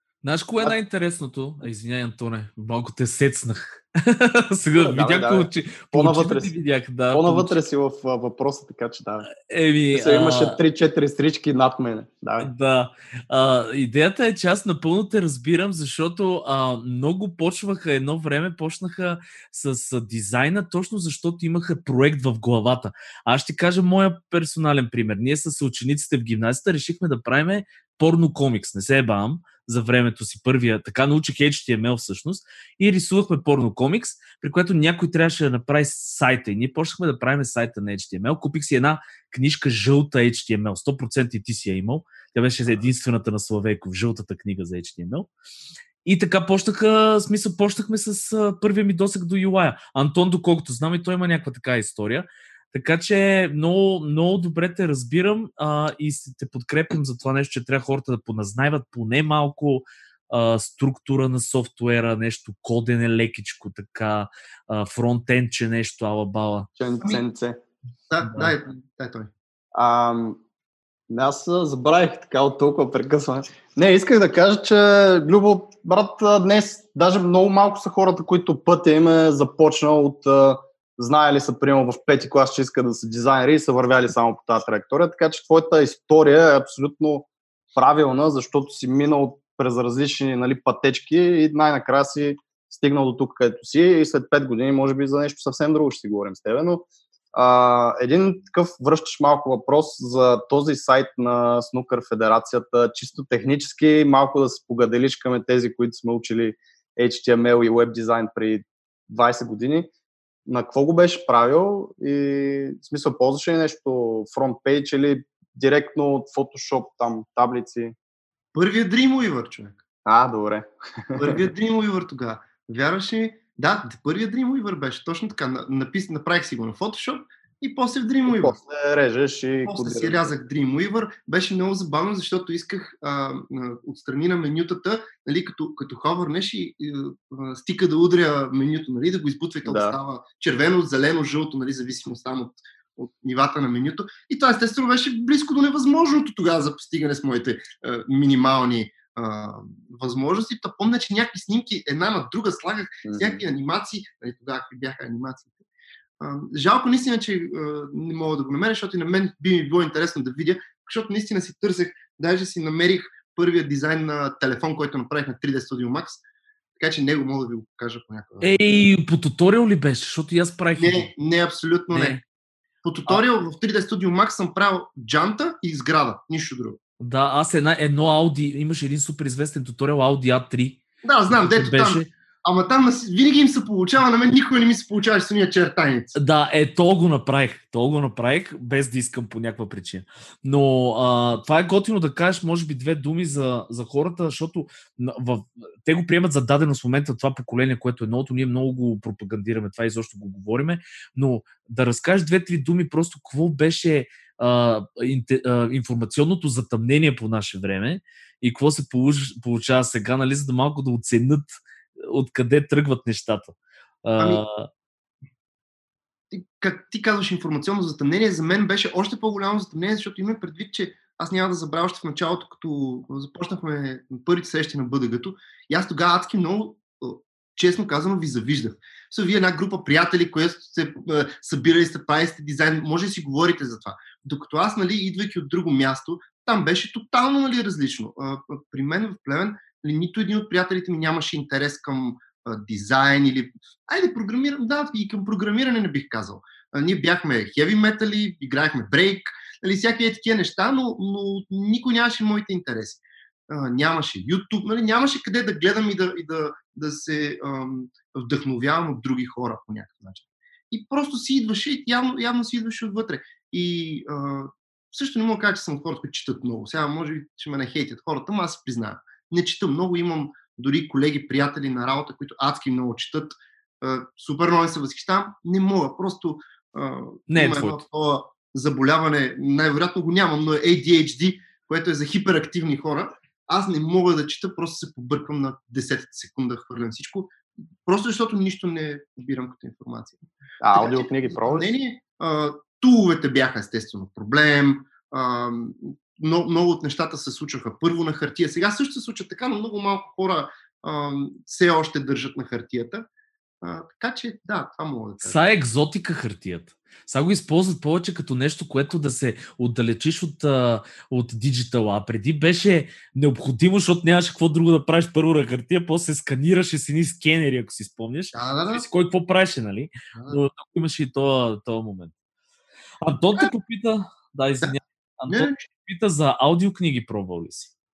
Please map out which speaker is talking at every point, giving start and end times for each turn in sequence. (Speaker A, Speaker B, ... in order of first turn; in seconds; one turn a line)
Speaker A: 0.2-7.6
Speaker B: 4.8-6.5
Speaker B: 7.1-9.3
Speaker A: 9.3-10.6
Speaker B: 9.9-12.5
Speaker A: 12.4-45.3
Speaker A: 46.0-66.7
Speaker B: 66.8-67.6
Speaker C: 68.1-69.3
Speaker B: 69.7-70.4
Speaker B: 71.1-109.9
Speaker B: 110.5-118.0
Speaker C: 118.5-119.8
Speaker B: 120.1-121.5
Speaker C: 121.2-128.6
Speaker B: 128.3-130.3
Speaker C: 129.7-155.6
Speaker B: 139.7-140.0
Speaker B: 153.0-153.4
Speaker C: 156.2-166.2
Speaker C: 166.8-168.6
Speaker A: 168.4-171.1
Speaker C: 170.8-172.2
Speaker A: 171.9-172.2
Speaker C: 172.8-176.8
Speaker A: 177.0-182.1
Speaker C: 181.0-186.2
Speaker A: 186.2-214.7
Speaker C: 216.3-290.2
Speaker A: 277.3-277.8
Speaker B: 290.6-291.7
Speaker C: 290.7-303.1
Speaker C: 303.6-305.4
Speaker A: 305.2-322.1
Speaker C: 318.3-318.9
Speaker C: 320.1-320.4
Speaker A: 323.0-327.7
Speaker C: 325.3-325.7